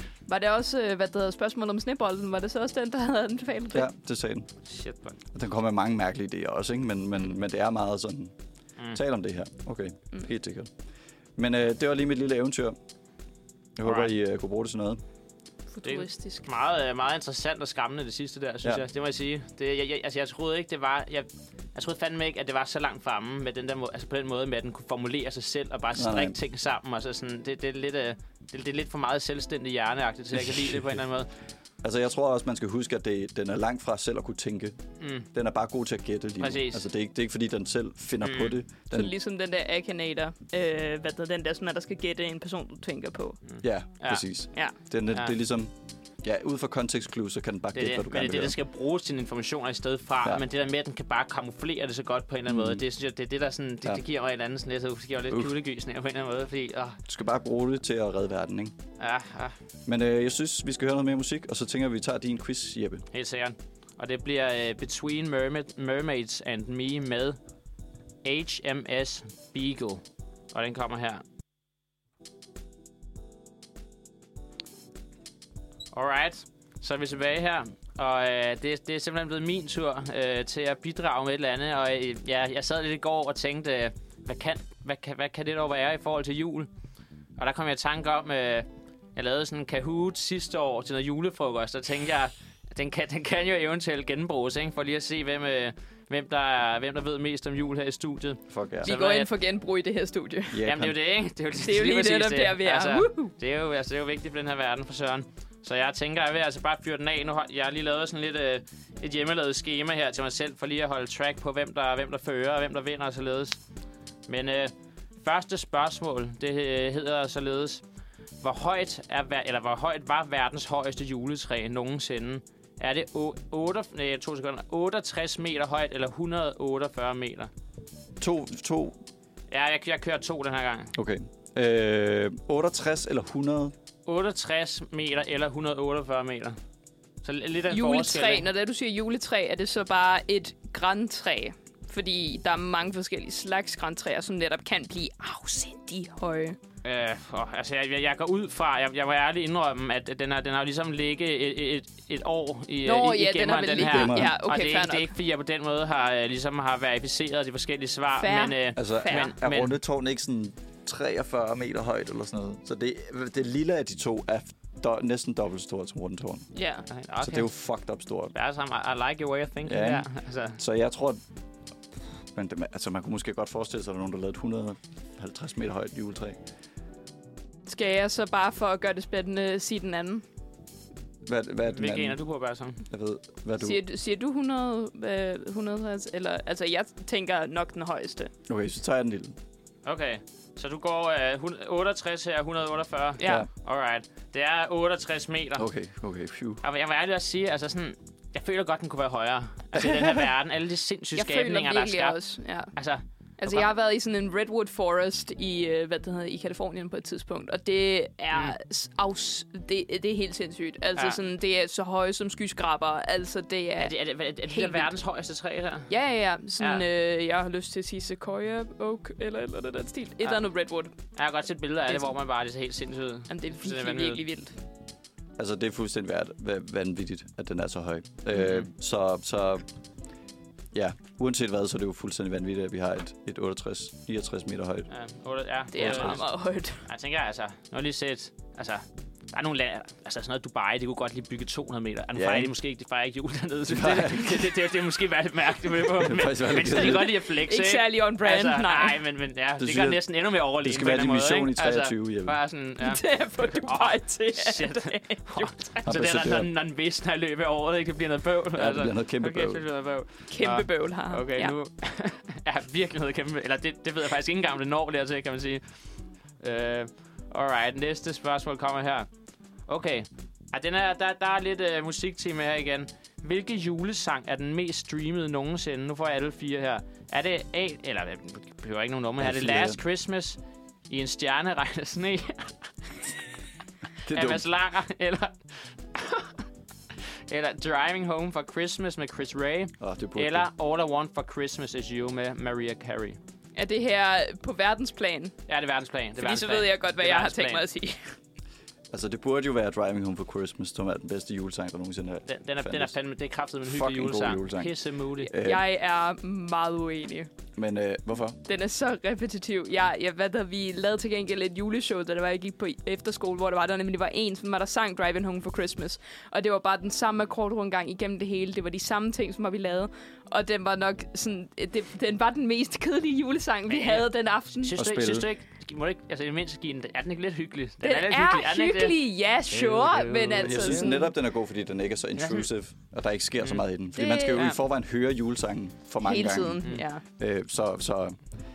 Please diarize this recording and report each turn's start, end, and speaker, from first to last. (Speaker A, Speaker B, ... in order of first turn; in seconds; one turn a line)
Speaker A: 0.3-3.9
Speaker B: 3.7-4.5
Speaker C: 4.7-5.2
Speaker B: 5.3-8.3
Speaker B: 8.9-10.7
Speaker B: 11.4-12.8
Speaker B: 13.8-15.0
Speaker C: 13.8-14.1
Speaker A: 15.7-16.5
Speaker C: 15.8-31.3
Speaker B: 25.9-26.4
Speaker B: 31.8-34.8
Speaker C: 35.0-35.3
Speaker B: 35.3-39.1
Speaker C: 36.4-36.8
Speaker C: 38.2-38.6
Speaker A: 38.9-43.4
Speaker C: 43.5-44.2
Speaker B: 43.6-48.6
Speaker C: 47.7-57.0
Speaker B: 52.5-52.8
Speaker B: 57.1-58.7
Speaker C: 59.0-59.5
Speaker B: 59.9-63.0
Speaker C: 63.1-67.4
Speaker C: 68.2-71.2
Speaker C: 75.9-86.7
Speaker C: 87.4-99.3
Speaker B: 98.5-98.9
Speaker A: 98.8-100.6
Speaker B: 100.5-100.9
Speaker C: 100.6-113.6
Speaker A: 101.6-103.3
Speaker C: 114.3-117.8
Speaker C: 118.4-127.5
Speaker B: 128.2-129.0
Speaker C: 129.5-130.9
Speaker B: 130.9-133.7
Speaker C: 134.1-136.6
Speaker C: 137.2-138.4
Speaker A: 137.7-146.6
Speaker C: 146.8-159.7
Speaker A: 152.8-155.1
Speaker B: 153.8-154.4
Speaker A: 158.2-159.3
Speaker B: 158.8-166.5
Speaker A: 166.5-166.8
Speaker C: 166.9-167.5
Speaker B: 167.2-168.3
Speaker C: 168.3-170.6
Speaker B: 169.6-171.2
Speaker B: 172.3-176.4
Speaker A: 177.7-180.2
Speaker B: 181.2-182.2
Speaker C: 181.7-182.8
Speaker B: 182.9-183.8
Speaker A: 183.6-188.3
Speaker B: 188.5-189.4
Speaker C: 189.8-195.7
Speaker A: 193.2-193.5
Speaker B: 195.6-196.6
Speaker C: 196.6-202.2
Speaker B: 199.8-200.2
Speaker A: 201.1-202.7
Speaker C: 202.7-203.7
Speaker A: 203.4-213.9
Speaker C: 213.8-215.9
Speaker A: 214.4-214.9
Speaker A: 215.9-220.9
Speaker C: 221.1-224.2
Speaker A: 223.3-224.5
Speaker B: 225.4-229.7
Speaker B: 230.7-234.9
Speaker C: 234.9-236.2
Speaker A: 235.7-236.8
Speaker B: 235.8-236.2
Speaker C: 236.8-265.6
Speaker B: 242.1-242.5
Speaker B: 243.7-244.5
Speaker B: 246.0-247.1
Speaker A: 246.7-249.0
Speaker B: 249.6-250.0
Speaker B: 250.6-252.3
Speaker A: 252.8-255.8
Speaker B: 255.8-256.5
Speaker B: 258.5-259.6
Speaker A: 260.3-261.5
Speaker C: 266.4-269.1
Speaker C: 269.7-280.4
Speaker B: 279.2-279.8
Speaker C: 280.9-283.0
Speaker B: 284.0-284.4
Speaker C: 284.1-286.4
Speaker C: 287.3-293.2
Speaker B: 289.8-290.5
Speaker A: 293.6-295.3
Speaker C: 295.5-297.6
Speaker A: 296.2-298.0
Speaker B: 298.9-302.9
Speaker C: 302.3-305.3
Speaker B: 303.6-305.6
Speaker A: 305.4-307.3
Speaker B: 307.6-308.4
Speaker A: 308.4-324.8
Speaker C: 323.7-330.9
Speaker B: 324.8-325.3
Speaker A: 327.8-331.1
Speaker B: 330.4-338.2
Speaker C: 332.2-332.4
Speaker A: 333.9-334.5
Speaker A: 336.0-337.0